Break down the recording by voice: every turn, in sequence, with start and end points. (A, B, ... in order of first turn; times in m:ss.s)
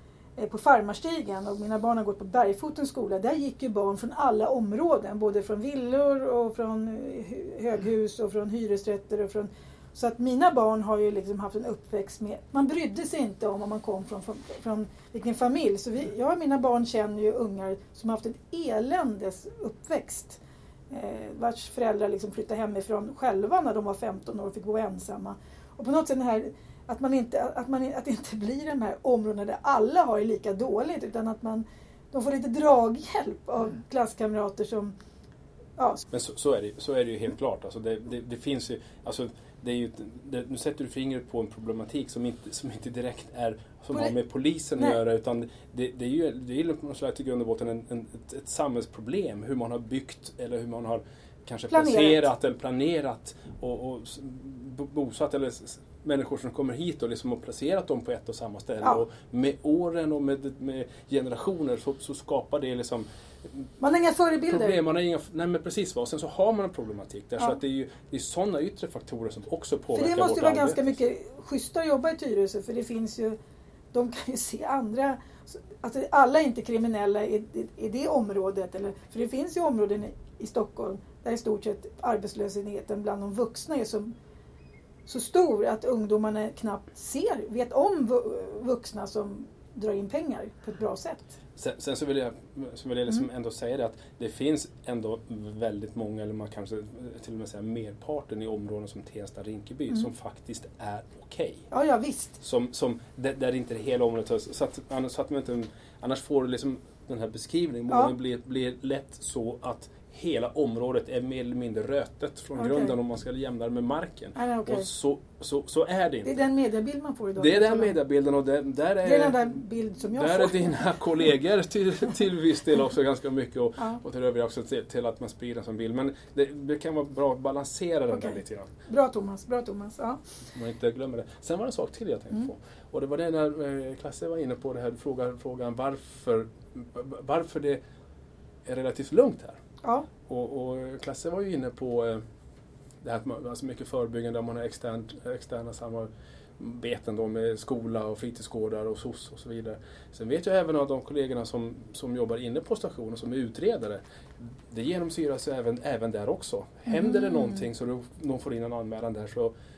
0:00.4-0:34.9 A
0:35.8-0:36.0 A
0:36.1-1:03.7 B
0:51.7-0:52.3 A
1:03.8-1:04.8 A
1:04.5-1:11.0 B
1:09.9-1:13.4 A
1:13.9-1:24.1 A
1:25.1-1:31.3 A
1:31.6-1:41.7 B
1:41.7-1:42.4 A
1:42.4-1:56.4 B
1:52.6-1:52.9 A
1:54.4-1:54.9 A
1:56.2-1:57.9 A
1:57.4-1:59.6 B
1:59.0-2:00.8 A
2:00.1-2:08.7 B
2:08.1-2:10.2 A
2:10.5-2:17.8 B
2:18.6-2:19.6 B
2:20.3-2:22.2 B
2:23.0-2:39.5 B
2:36.9-2:37.6 A